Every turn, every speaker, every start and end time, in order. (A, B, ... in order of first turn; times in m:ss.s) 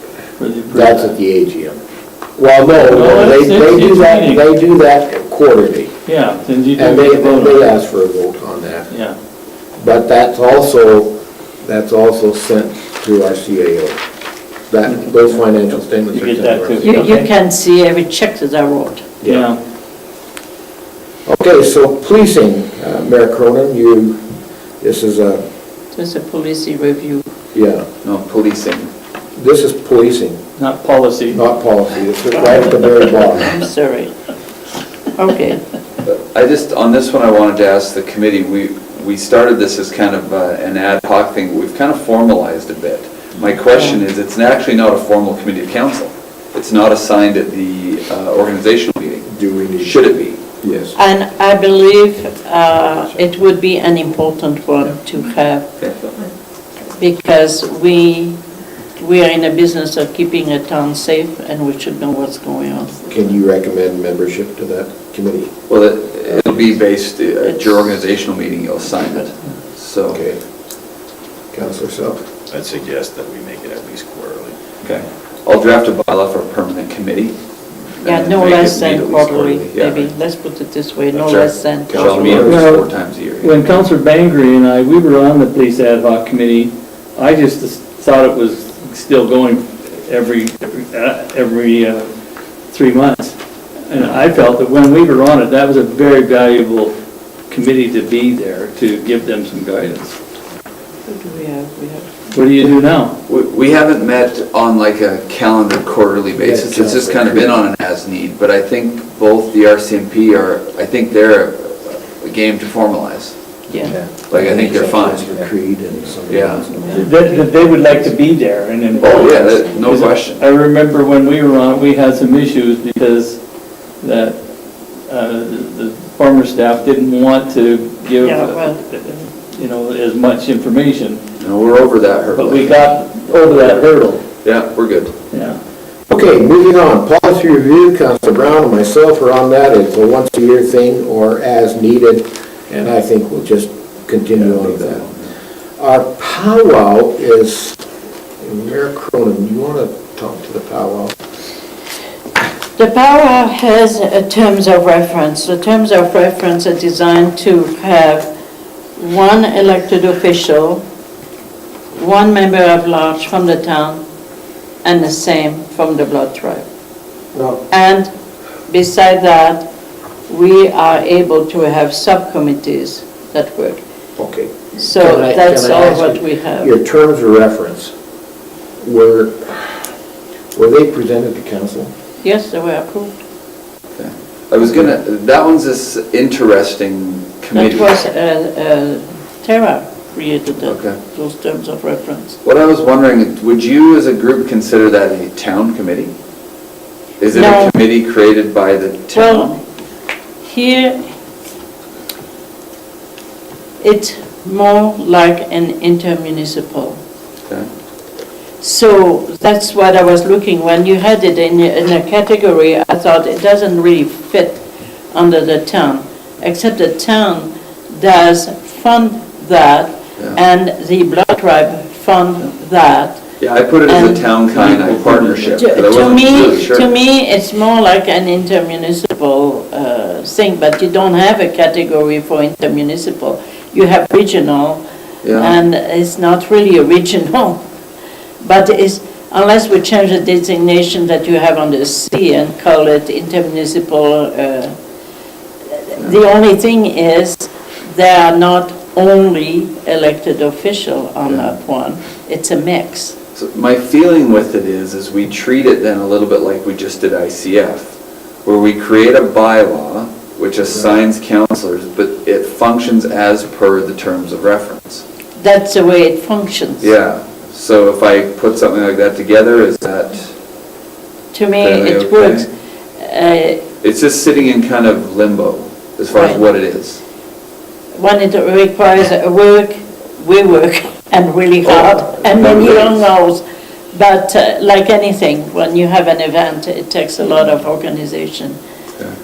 0:00.4-0:01.1 A
0:00.7-0:01.8 B
0:02.4-0:05.9 B
0:02.8-0:04.4 A
0:06.0-0:07.6 A
0:06.8-0:08.9 B
0:08.9-0:09.1 A
0:09.8-0:14.0 B
0:14.7-0:16.9 B
0:14.9-0:15.1 A
0:16.1-0:17.3 A
0:16.8-0:19.1 C
0:19.2-0:19.5 B
0:19.2-0:19.6 A
0:21.2-0:24.2 B
0:24.8-0:25.4 B
0:25.9-0:27.3 C
0:27.5-0:27.8 B
0:28.0-0:28.9 D
0:29.4-0:30.4 B
0:30.6-0:31.4 A
0:31.3-0:33.6 B
0:32.3-0:34.1 C
0:35.2-0:35.6 C
0:36.0-0:50.4 D
0:43.7-0:44.0 C
0:49.3-0:50.0 B
0:50.6-0:50.9 B
0:50.9-0:55.7 C
0:55.8-0:56.1 D
0:57.0-0:58.4 C
0:59.0-1:03.1 C
1:03.1-1:05.5 B
1:05.7-1:10.2 D
1:10.1-1:10.4 B
1:11.5-1:12.2 B
1:12.5-1:14.6 E
1:14.8-1:17.3 D
1:18.0-1:22.5 C
1:18.0-1:20.1 D
1:21.1-1:23.6 D
1:21.9-1:22.6 B
1:22.4-1:22.9 A
1:23.4-1:32.1 A
1:32.7-1:36.9 A
1:37.5-1:40.2 A
1:41.1-1:42.1 C
1:42.3-1:43.2 A
1:43.3-1:53.3 D
1:46.3-1:47.6 B
1:53.7-1:53.9 C
1:53.8-1:57.1 B
1:54.3-1:55.5 D
1:56.3-1:56.7 D
1:56.8-1:57.3 C
1:56.9-2:03.4 A
1:59.0-2:00.4 D
2:04.0-2:04.5 A
2:05.1-2:11.2 A
2:08.2-2:08.8 C
2:11.4-2:12.9 D
2:12.3-2:14.2 A
2:13.4-2:13.8 D
2:14.4-2:15.1 D
2:15.3-2:15.6 A
2:16.1-2:25.1 B
2:24.3-2:25.3 D
2:25.8-2:27.8 B
2:28.4-2:31.1 B
2:32.8-2:38.3 C
2:39.0-2:40.8 C
2:41.9-2:44.0 C
2:44.8-2:46.6 C
2:47.3-2:47.6 B
2:47.7-2:48.1 C
2:48.7-2:49.7 C
2:50.3-2:53.8 C
2:54.2-2:57.9 B
2:54.8-2:56.7 C
2:58.8-2:59.8 B
3:00.5-3:01.9 B
3:02.2-3:03.1 C
3:04.0-3:08.0 D
3:07.5-3:12.4 C
3:10.6-3:11.0 D
3:12.4-3:16.1 D
3:17.2-3:19.6 D
3:17.3-3:17.8 C
3:19.1-3:19.6 C
3:20.4-3:21.1 C
3:23.8-3:27.0 C
3:28.6-3:43.2 C
3:43.4-3:46.9 D
3:43.9-3:44.3 C
3:44.5-3:45.6 A
3:45.5-3:57.6 C
3:55.2-3:55.6 D
3:58.4-4:04.7 C
4:05.9-4:13.2 C
4:13.3-4:25.0 D
4:25.4-4:26.9 C
4:26.8-4:30.3 D
4:31.3-4:33.7 C
4:31.6-4:32.5 D
4:33.8-4:37.0 D
4:36.1-4:36.4 C
4:38.0-4:48.6 C
4:41.6-4:43.0 D